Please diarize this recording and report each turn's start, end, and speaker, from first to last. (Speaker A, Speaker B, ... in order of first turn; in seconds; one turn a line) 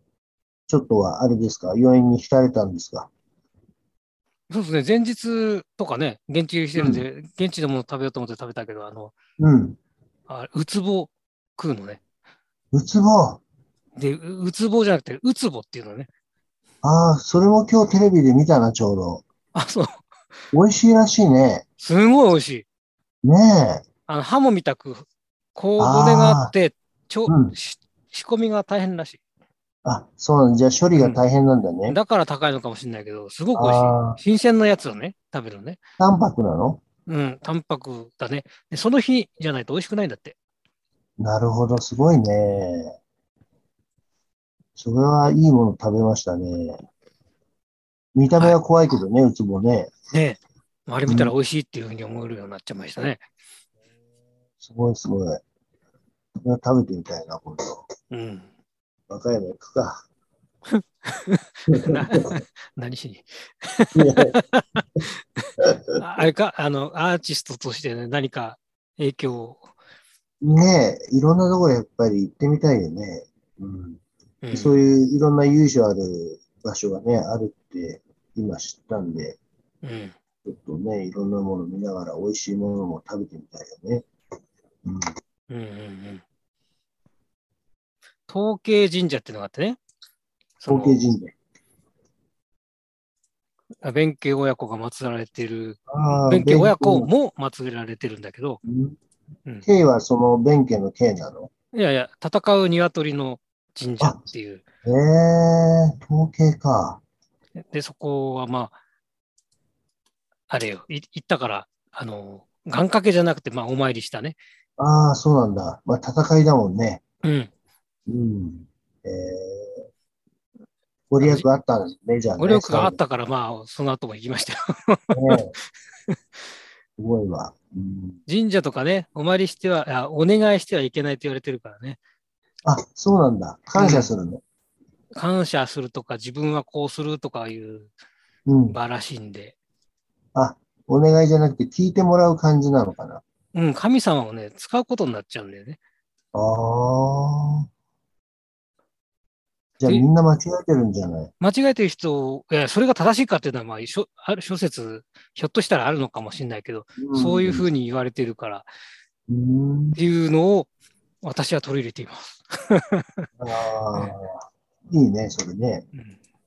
Speaker A: 0.7-3.1
Speaker B: 4.5-9.1
Speaker A: 6.8-7.0
Speaker A: 9.4-9.8
Speaker B: 10.3-12.0
Speaker A: 12.7-13.4
Speaker B: 13.9-16.1
Speaker A: 16.8-19.2
Speaker B: 19.5-20.1
Speaker A: 20.5-21.6
Speaker B: 21.8-22.6
Speaker A: 23.2-23.8
Speaker B: 24.1-29.2
Speaker A: 25.8-26.5
Speaker A: 27.3-27.5
Speaker A: 29.8-32.0
Speaker B: 30.9-31.2
Speaker B: 31.9-35.8
Speaker A: 33.5-34.2
Speaker A: 36.0-36.8
Speaker B: 37.0-40.4
Speaker A: 41.2-43.0
Speaker A: 44.8-46.8
Speaker A: 48.1-49.9
Speaker B: 50.1-53.2
Speaker A: 51.1-51.3
Speaker A: 54.6-55.4
Speaker A: 56.4-57.8
Speaker B: 58.1-58.5
Speaker A: 59.1-60.0
Speaker B: 60.7-64.8
Speaker A: 61.7-62.2
Speaker A: 63.9-64.3
Speaker B: 65.4-69.6
Speaker A: 70.4-74.0
Speaker B: 74.4-74.8
Speaker A: 74.5-79.4
Speaker B: 79.8-80.2
Speaker A: 80.4-84.0
Speaker B: 85.5-86.2
Speaker B: 88.3-89.8
Speaker B: 90.6-91.0
Speaker A: 90.7-91.3
Speaker B: 93.8-98.6
Speaker A: 95.9-97.1
Speaker A: 98.6-99.0
Speaker A: 99.6-101.5
Speaker B: 101.7-104.6
Speaker A: 104.8-107.0
Speaker B: 107.7-108.8
Speaker B: 110.5-114.4
Speaker A: 114.8-117.0
Speaker B: 117.2-117.5
Speaker A: 118.1-119.8
Speaker A: 121.1-123.0
Speaker B: 121.2-121.5
Speaker B: 122.4-125.4
Speaker A: 125.1-125.5
Speaker A: 127.0-128.2
Speaker B: 128.3-132.0
Speaker A: 132.6-134.4
Speaker B: 133.7-134.1
Speaker B: 135.2-137.9
Speaker A: 138.5-138.8
Speaker B: 138.7-139.5
Speaker A: 140.3-143.2
Speaker B: 143.5-145.8
Speaker A: 146.3-147.7
Speaker A: 149.8-151.3
Speaker B: 151.4-158.7
Speaker A: 157.0-157.7
Speaker A: 159.3-160.0
Speaker B: 159.9-160.7
Speaker B: 161.2-163.2
Speaker A: 163.4-165.9